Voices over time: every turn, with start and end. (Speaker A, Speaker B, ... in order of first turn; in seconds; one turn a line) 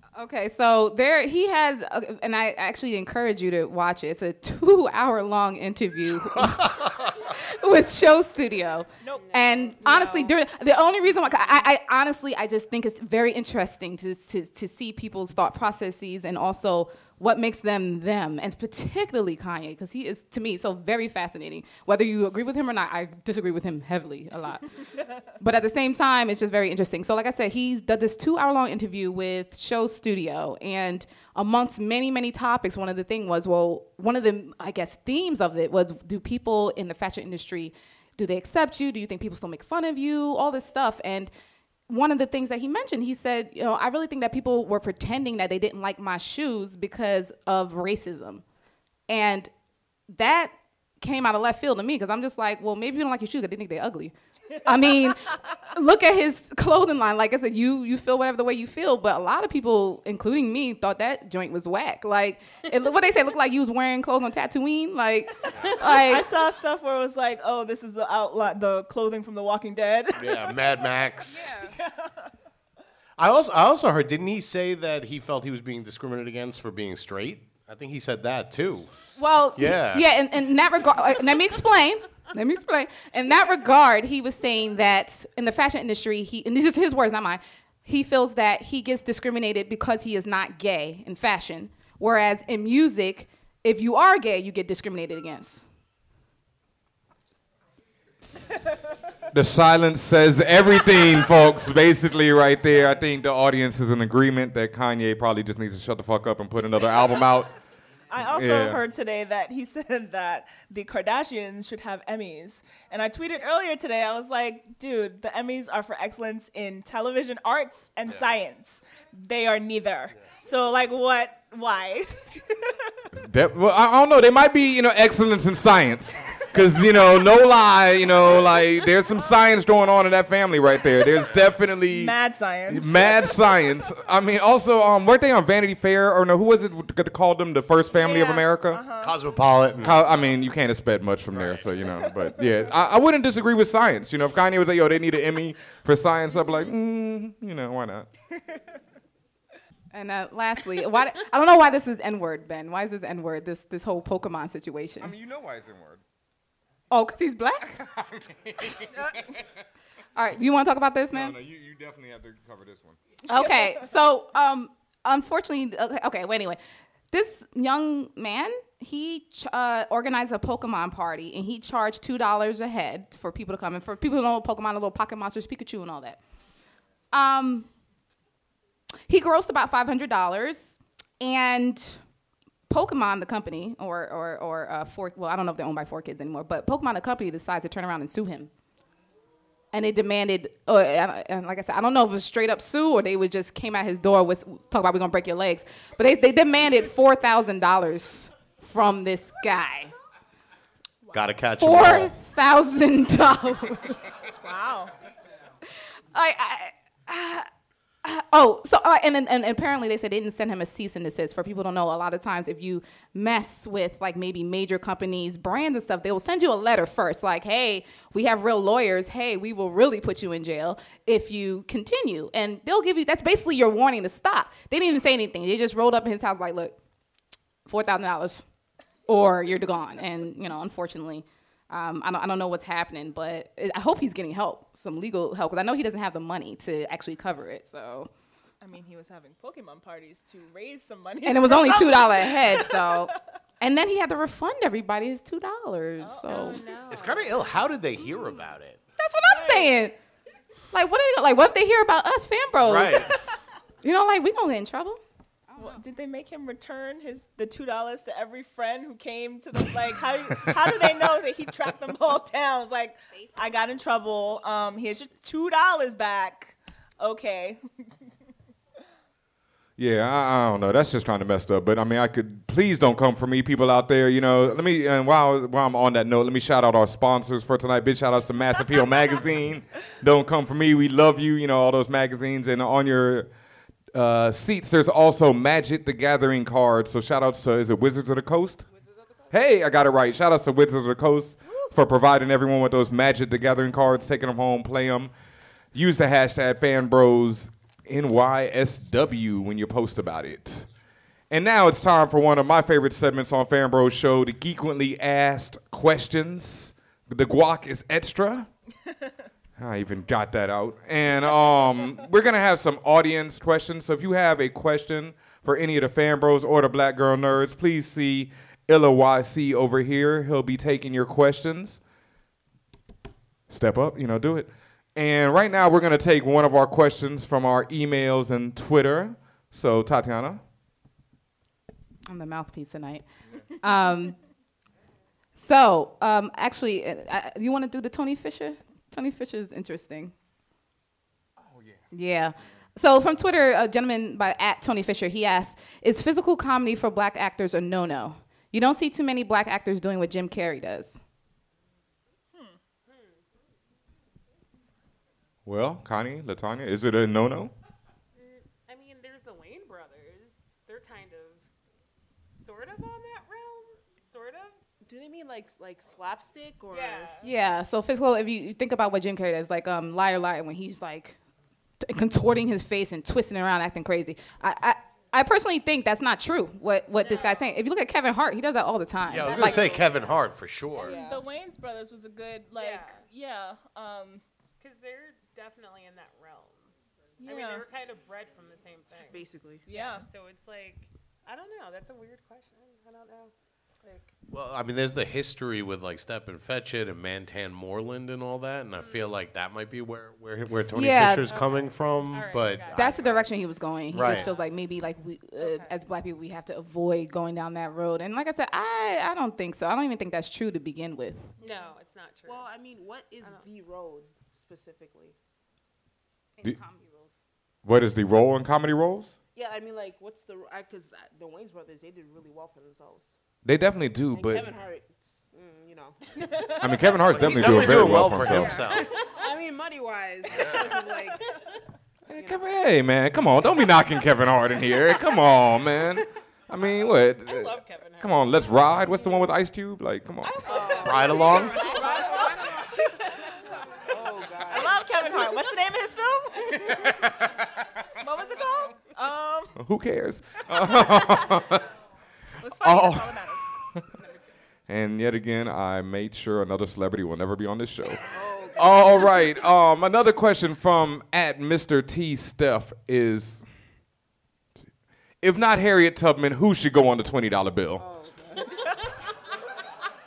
Speaker A: 0.2-24.7
Speaker A: 25.4-41.3
Speaker A: 41.9-48.4
Speaker A: 49.1-49.5
Speaker A: 50.1-55.2
Speaker A: 55.7-66.3
Speaker B: 65.8-70.5
Speaker C: 70.2-71.5
Speaker D: 71.3-71.7
Speaker C: 73.2-78.9
Speaker A: 79.2-95.7
Speaker C: 79.6-80.0
Speaker E: 99.3-107.5
Speaker B: 108.1-122.7
Speaker E: 108.2-108.8
Speaker C: 118.1-118.3
Speaker E: 123.2-132.1
Speaker B: 131.9-133.2
Speaker E: 132.7-138.8
Speaker B: 137.9-139.1
Speaker C: 139.0-140.0
Speaker E: 139.8-148.1
Speaker C: 141.3-141.7
Speaker A: 149.9-155.1
Speaker E: 155.0-156.0
Speaker A: 156.9-157.8
Speaker E: 157.8-159.4
Speaker A: 160.2-161.4
Speaker E: 161.1-163.0
Speaker A: 163.3-166.6
Speaker A: 167.1-176.2
Speaker A: 177.1-177.7
Speaker A: 179.1-182.0
Speaker A: 182.7-188.5
Speaker A: 189.7-199.9
Speaker C: 201.1-202.1
Speaker A: 201.6-204.0
Speaker B: 204.4-204.9
Speaker A: 206.1-207.5
Speaker A: 208.0-226.8
Speaker A: 227.7-228.4
Speaker A: 229.1-238.1
Speaker B: 238.6-242.8
Speaker A: 241.2-246.6
Speaker B: 246.3-246.8
Speaker D: 246.3-247.7
Speaker C: 246.9-248.8
Speaker A: 249.0-249.9
Speaker B: 249.3-249.7
Speaker A: 250.7-253.1
Speaker C: 252.6-253.1
Speaker A: 253.8-255.0
Speaker B: 255.6-267.6
Speaker E: 269.8-283.3
Speaker E: 283.9-288.6
Speaker E: 289.3-295.1
Speaker E: 295.7-300.7
Speaker E: 301.3-308.5
Speaker E: 309.6-321.8
Speaker E: 323.5-330.4
Speaker A: 332.1-333.0
Speaker A: 333.6-334.2
Speaker A: 335.4-340.1
Speaker E: 341.5-341.8
Speaker A: 341.9-351.0
Speaker D: 352.9-353.2
Speaker E: 355.4-357.5
Speaker D: 358.1-361.5
Speaker D: 362.4-364.6
Speaker F: 364.9-367.1
Speaker D: 366.7-367.3
Speaker A: 367.2-371.2
Speaker A: 371.8-379.7
Speaker D: 377.0-377.4
Speaker C: 379.1-381.0
Speaker D: 379.4-379.7
Speaker B: 380.8-384.2
Speaker D: 380.8-381.2
Speaker D: 382.6-383.0
Speaker D: 384.6-394.1
Speaker B: 387.2-387.6
Speaker F: 389.0-389.6
Speaker B: 389.7-390.1
Speaker C: 394.3-403.2
Speaker D: 398.8-399.1
Speaker A: 400.7-401.3
Speaker D: 401.2-403.1
Speaker A: 402.7-411.3
Speaker C: 403.9-404.3
Speaker D: 404.0-404.4
Speaker D: 405.4-405.7
Speaker D: 411.4-412.5
Speaker F: 412.2-415.1
Speaker D: 416.5-417.1
Speaker E: 417.6-419.1
Speaker F: 419.4-423.1
Speaker E: 423.4-424.5
Speaker F: 424.1-426.5
Speaker E: 426.6-428.6
Speaker C: 427.1-428.9
Speaker F: 427.3-431.2
Speaker E: 432.1-440.5
Speaker F: 432.2-432.4
Speaker D: 437.2-439.0
Speaker D: 440.2-443.4
Speaker F: 440.5-442.5
Speaker C: 440.8-441.7
Speaker B: 441.7-442.4
Speaker F: 443.9-444.8
Speaker B: 444.5-446.6
Speaker B: 448.0-449.5
Speaker E: 449.6-451.6
Speaker B: 452.4-453.5
Speaker E: 452.6-453.3
Speaker E: 454.7-458.0
Speaker F: 458.1-459.0
Speaker E: 458.6-463.4
Speaker E: 465.2-467.8
Speaker F: 467.8-468.6